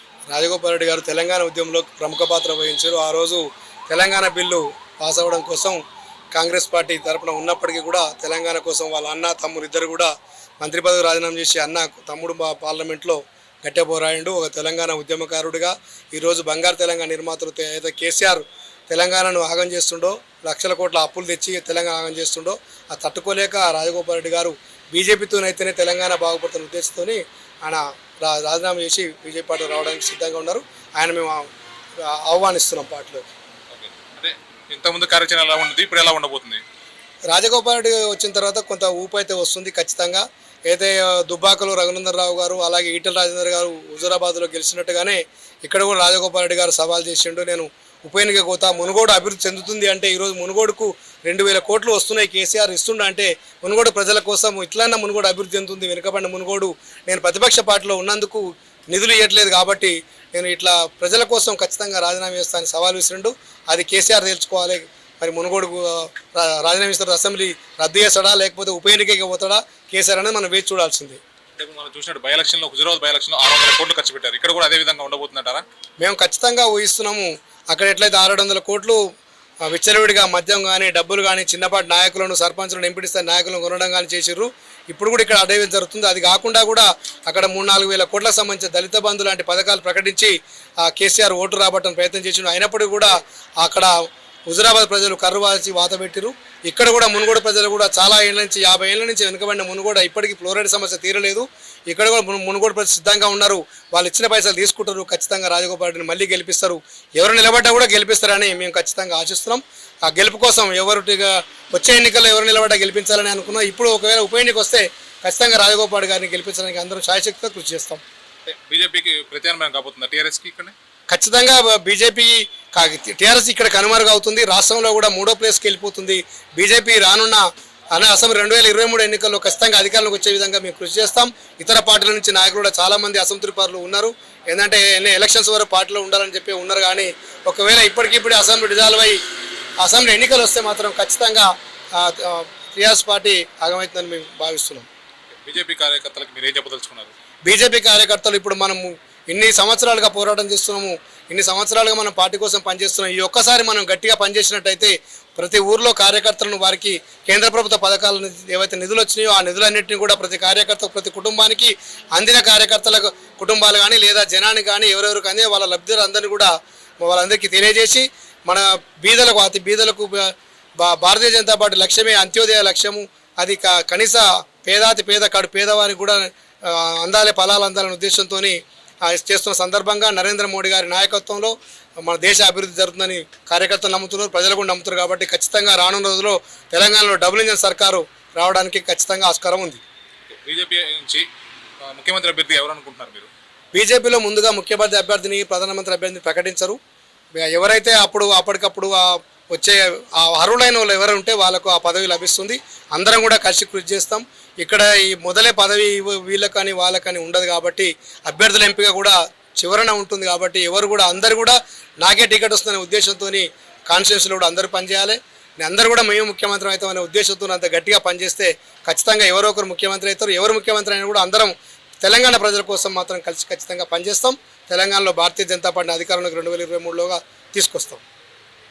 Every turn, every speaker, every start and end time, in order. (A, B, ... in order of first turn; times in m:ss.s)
0:00.3-0:05.8 A
0:06.3-0:31.4 A
0:32.0-0:33.2 A
0:33.7-0:36.6 B
0:37.3-1:11.2 A
1:11.6-1:15.6 B
1:16.0-1:19.0 A
1:19.6-1:33.9 A
1:34.5-1:58.0 A
1:58.4-2:00.7 B
2:01.1-2:19.2 A
2:19.8-2:24.9 A
2:25.4-2:27.1 B
2:27.4-3:09.8 A
3:10.3-3:11.2 B
3:11.8-3:13.3 B
3:13.7-3:16.8 A
3:17.3-3:48.0 A